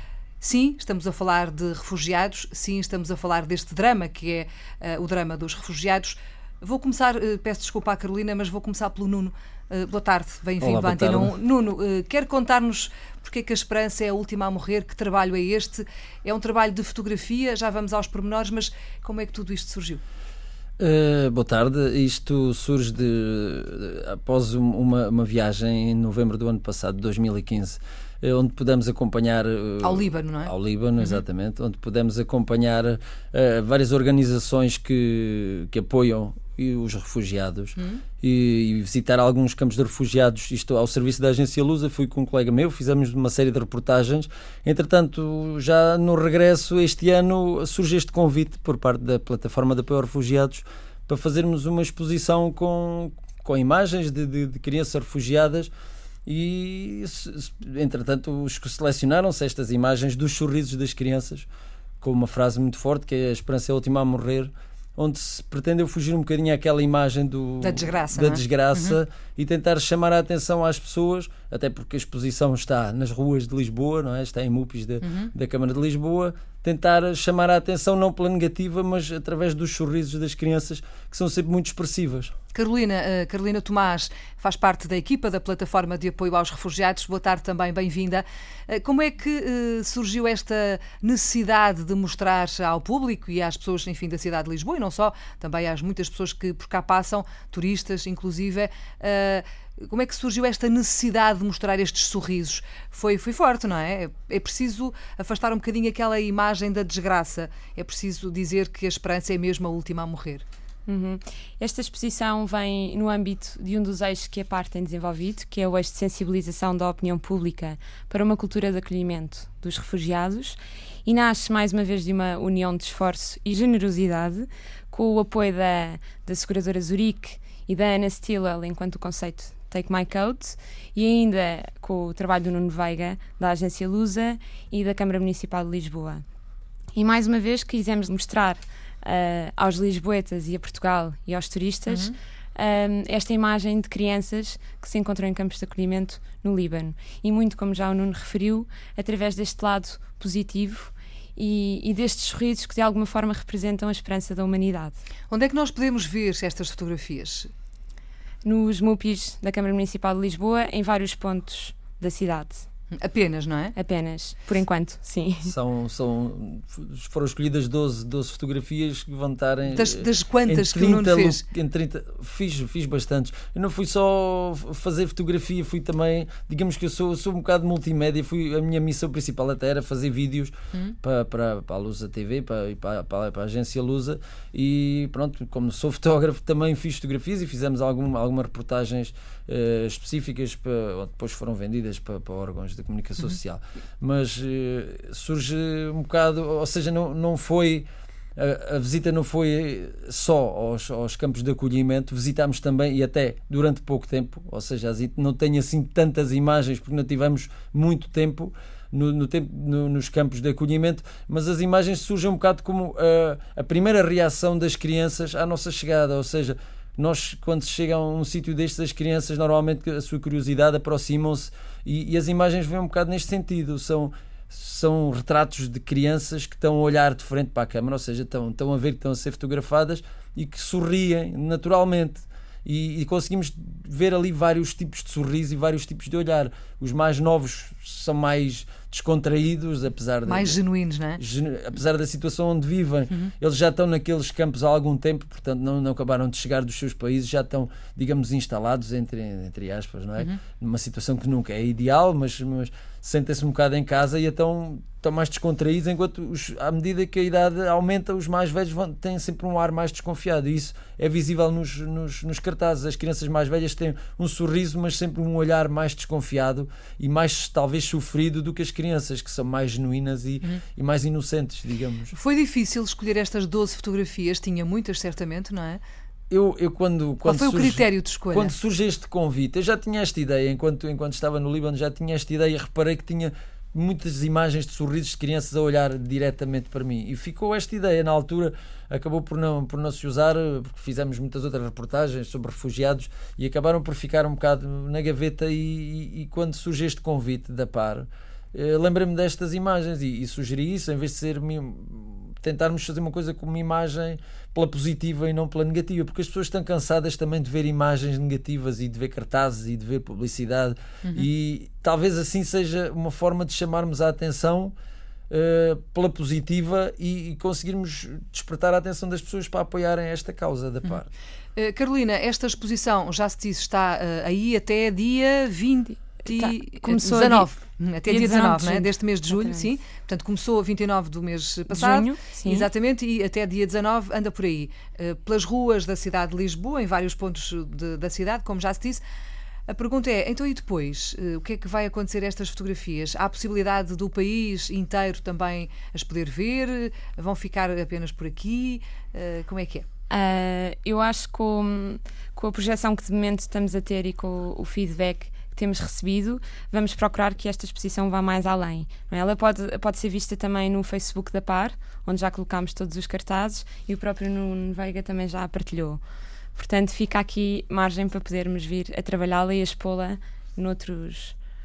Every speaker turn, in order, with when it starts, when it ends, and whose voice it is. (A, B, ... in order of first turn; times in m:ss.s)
0:00.4-0:20.0 A
0:10.6-0:11.3 B
0:20.8-0:55.7 B
0:29.8-0:31.2 A
0:56.2-1:01.5 B
1:02.0-1:22.3 B
1:07.6-1:09.0 A
1:15.0-1:15.3 A
1:22.5-1:50.4 A
1:50.9-2:16.2 C
2:16.9-2:35.0 C
2:21.9-2:22.1 A
2:35.3-2:37.5 A
2:38.4-2:42.6 C
2:42.9-2:43.7 A
2:43.7-2:45.5 C
2:45.4-4:00.6 B
2:49.7-2:51.4 A
4:00.3-4:01.2 A
4:01.2-4:32.1 B
4:32.1-4:35.8 A
4:36.3-5:14.7 B
4:37.2-4:38.5 A
5:15.3-5:21.1 B
5:21.6-5:39.0 A
5:26.3-5:27.5 C
5:28.1-5:29.6 C
5:31.7-5:32.7 C
5:39.7-5:49.8 A
5:50.1-6:06.0 C
6:06.5-6:11.4 C